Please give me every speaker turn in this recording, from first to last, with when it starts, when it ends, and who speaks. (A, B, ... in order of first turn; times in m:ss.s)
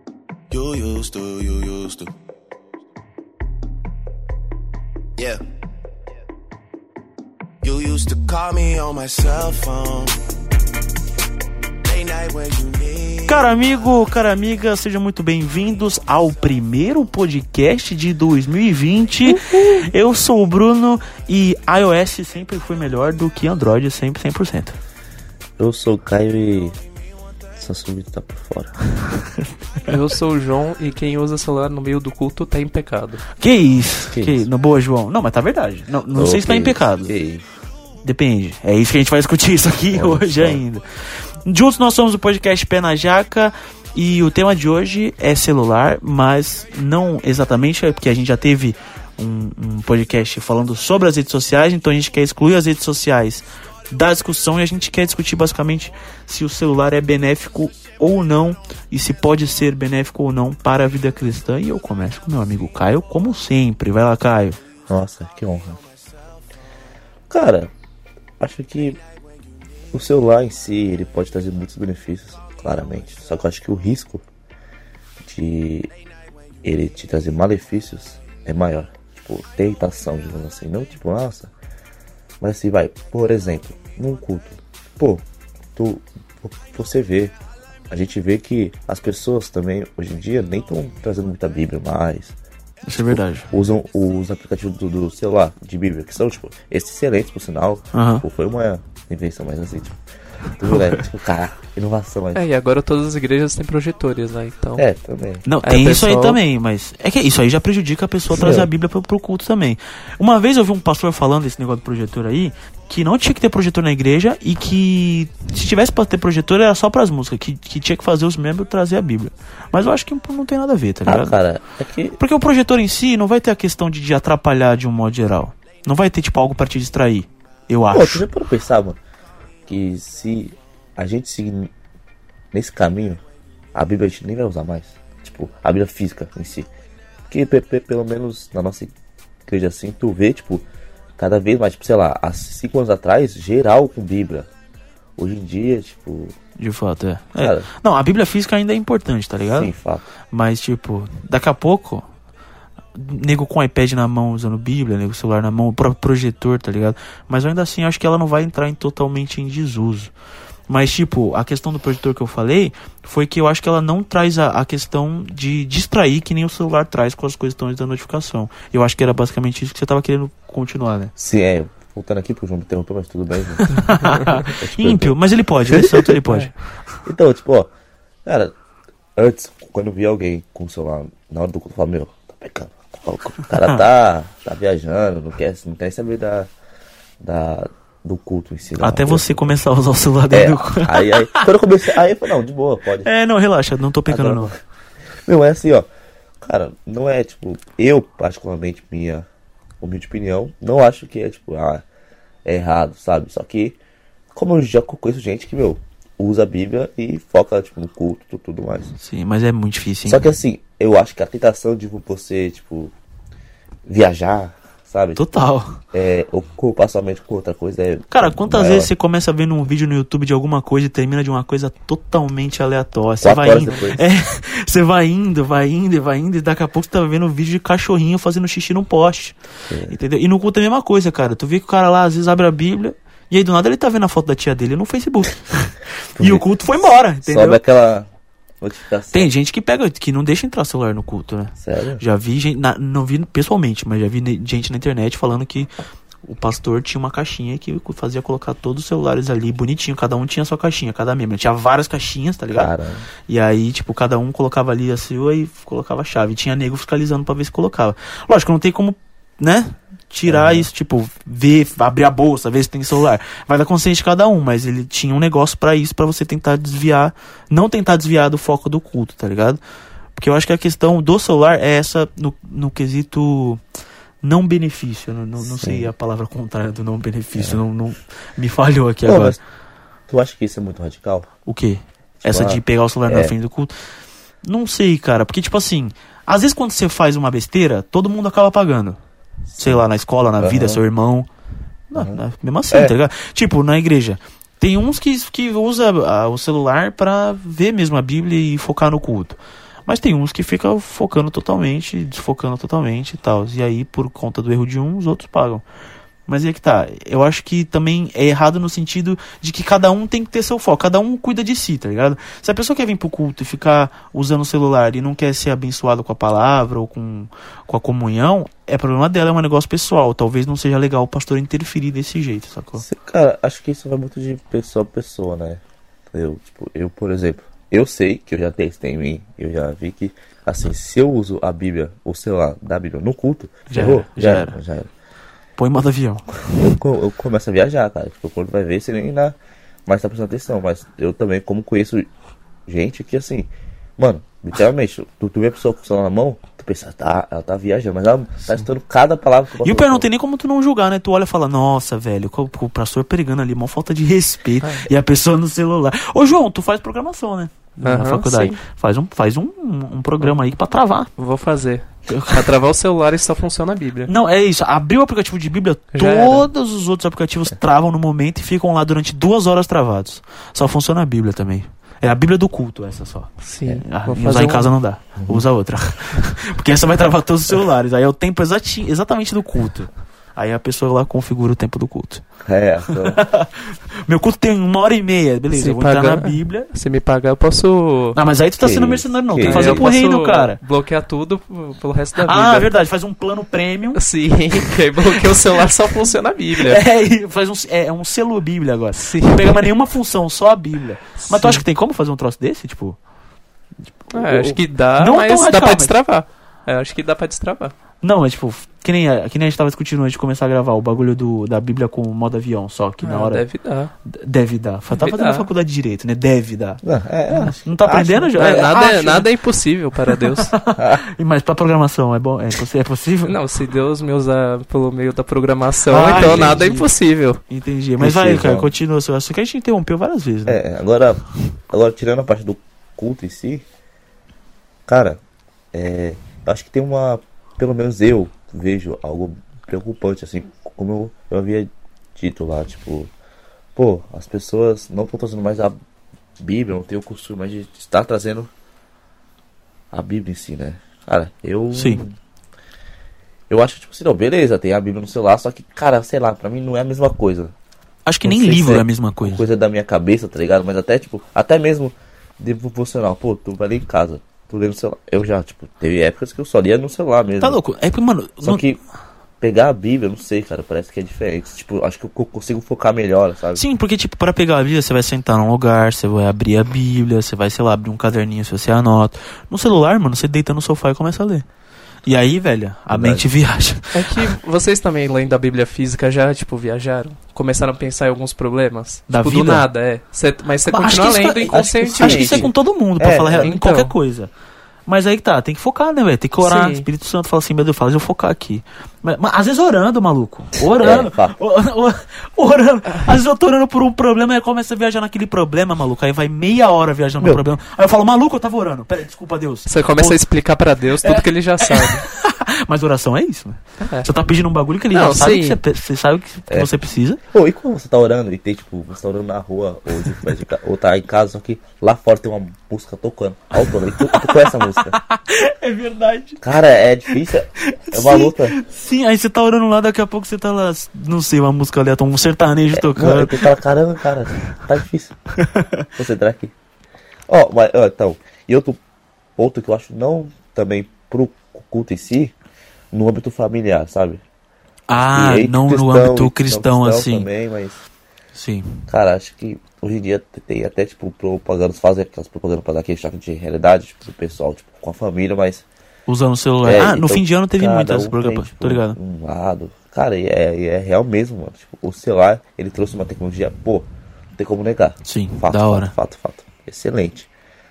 0:00.5-0:02.1 A
0:07.6-0:10.1 A
0:11.8-0:13.5 A
0:13.3-0:24.8 B
0:19.2-0:19.9 C
0:25.6-0:26.8 C
0:27.6-0:28.8 C
0:29.9-0:33.2 D
0:33.4-0:37.1 B
0:34.1-0:34.5 C
0:36.1-0:37.4 C
0:38.0-0:40.8 B
0:39.9-0:40.6 C
0:41.4-1:04.6 B
1:04.9-1:05.8 C
1:07.3-1:07.7 C
1:08.4-1:09.0 C
1:09.9-1:14.2 C
1:15.2-1:15.9 C
1:16.6-1:21.5 C
1:22.4-1:25.2 C
1:25.8-1:27.3 C
1:27.9-1:32.3 C
1:32.8-1:33.5 B
1:33.0-1:40.0 C
1:37.9-1:38.2 B
1:40.6-1:42.4 C
1:42.3-1:44.8 D
1:44.8-1:45.4 C
1:45.4-2:01.4 B
1:45.6-1:46.4 D
1:48.3-1:48.7 C
2:01.0-2:02.2 C
2:02.2-2:08.2 B
2:07.9-2:09.0 C
2:09.7-2:11.7 C
2:12.5-2:13.2 C
2:13.7-2:16.7 C
2:17.3-2:18.9 C
2:19.5-2:20.6 C
2:21.2-2:24.5 C
2:25.2-2:26.4 C
2:26.6-2:29.7 B
2:27.3-2:27.7 C
2:29.4-2:30.0 C
2:30.3-2:32.0 B
2:32.9-2:40.1 B
2:40.7-2:51.1 B
2:51.2-2:55.2 C
2:53.7-2:56.5 B
2:55.7-2:56.2 C
2:57.0-2:57.7 C
2:58.2-2:58.5 C
2:59.2-3:06.5 C
3:07.2-3:09.6 C
3:08.8-3:11.5 B
3:10.3-3:13.1 C
3:13.0-3:14.5 B
3:14.1-3:14.6 C
3:15.2-3:15.9 C
3:16.4-3:19.2 C
3:19.8-3:21.8 C
3:22.4-3:23.8 C
3:24.3-3:28.9 C
3:29.0-3:30.3 B
3:30.0-3:32.9 C
3:33.8-3:35.2 C
3:35.2-3:35.8 B
3:35.9-3:38.9 C
3:38.1-3:49.3 B
3:43.2-3:44.0 C
3:49.7-3:49.9 C
3:49.9-3:57.6 B
3:56.2-3:56.4 C
3:57.2-3:58.1 C
3:58.6-3:59.3 C
3:59.1-4:05.7 B
4:01.6-4:02.0 C
4:06.2-4:12.7 B
4:12.5-4:13.1 C
4:13.3-4:29.6 B
4:20.3-4:20.7 C
4:30.1-4:33.6 B
4:34.2-4:39.4 B
4:35.4-4:35.9 C
4:37.3-4:37.6 C
4:39.0-4:39.4 C
4:40.1-4:41.3 C
4:41.4-4:43.7 B
4:42.2-4:43.3 C
4:44.4-4:49.0 B
4:49.5-4:49.8 C
4:49.6-4:51.3 B
4:50.4-4:50.8 C
4:51.9-5:05.6 B
4:51.9-4:52.9 C
5:06.3-5:22.8 B
5:22.8-5:25.6 C
5:26.1-5:34.9 C
5:33.7-5:34.6 B
5:35.6-5:36.6 B
5:36.5-5:39.3 C
5:39.8-5:42.1 C
5:42.7-5:50.1 C
5:49.6-6:01.1 B
5:54.6-5:54.9 D
5:57.8-5:58.6 D
6:01.2-6:04.1 D
6:02.1-6:02.4 B
6:04.1-6:22.2 B
6:05.9-6:06.5 D
6:13.4-6:14.7 D
6:15.2-6:15.4 C
6:22.4-6:23.2 C
6:22.9-6:26.7 B
6:25.5-6:28.2 D
6:28.1-6:30.6 B
6:28.6-6:29.8 C
6:29.4-6:32.7 D
6:32.2-6:34.0 B
6:33.9-6:36.8 D
6:34.5-6:35.4 B
6:36.6-6:43.0 B
6:38.9-6:39.7 D
6:41.2-6:41.6 D
6:44.1-6:45.9 B
6:44.1-6:47.7 D
6:48.0-6:53.4 B
6:53.0-6:53.9 D
6:54.1-6:59.3 B
6:54.9-6:55.5 D
6:56.8-6:58.6 C
6:58.4-7:00.6 D
7:00.4-7:03.3 B
7:00.8-7:01.0 C
7:03.2-7:07.4 D
7:05.9-7:06.9 B
7:06.1-7:06.6 C
7:07.5-7:10.6 B
7:08.0-7:08.7 C
7:10.5-7:13.6 C
7:14.9-7:15.2 C
7:15.7-7:23.1 C
7:23.8-7:25.8 C
7:26.4-7:28.5 C
7:29.9-7:32.2 C
7:31.7-7:32.0 B
7:33.5-7:37.5 C
7:38.1-7:39.4 B
7:38.2-7:47.6 C
7:47.4-7:48.6 B
7:48.4-7:48.8 C
7:49.4-7:53.6 C
7:53.6-8:01.4 B
8:02.0-8:04.3 B
8:02.9-8:03.3 C
8:03.9-8:12.5 D
8:09.1-8:09.6 B
8:10.7-8:14.3 B
8:11.5-8:13.5 C
8:13.4-8:13.9 D
8:14.8-8:30.2 B
8:16.4-8:16.8 D
8:20.8-8:21.4 C
8:29.7-8:32.1 D
8:31.0-8:37.2 B
8:33.8-8:34.1 D
8:34.9-8:35.6 D
8:37.3-8:45.0 C
8:43.8-8:46.4 B
8:46.4-8:48.6 C
8:47.6-8:53.5 B
8:52.7-8:55.2 C
8:55.4-8:55.9 B
8:56.0-8:56.5 C
8:57.3-8:58.8 C
8:59.4-9:02.3 C
9:02.9-9:04.2 C
9:04.9-9:07.3 B
9:05.1-9:07.8 C
9:08.4-9:08.8 B
9:08.9-9:15.6 C
9:16.1-9:19.0 B
9:16.6-9:27.3 C
9:25.0-9:25.9 B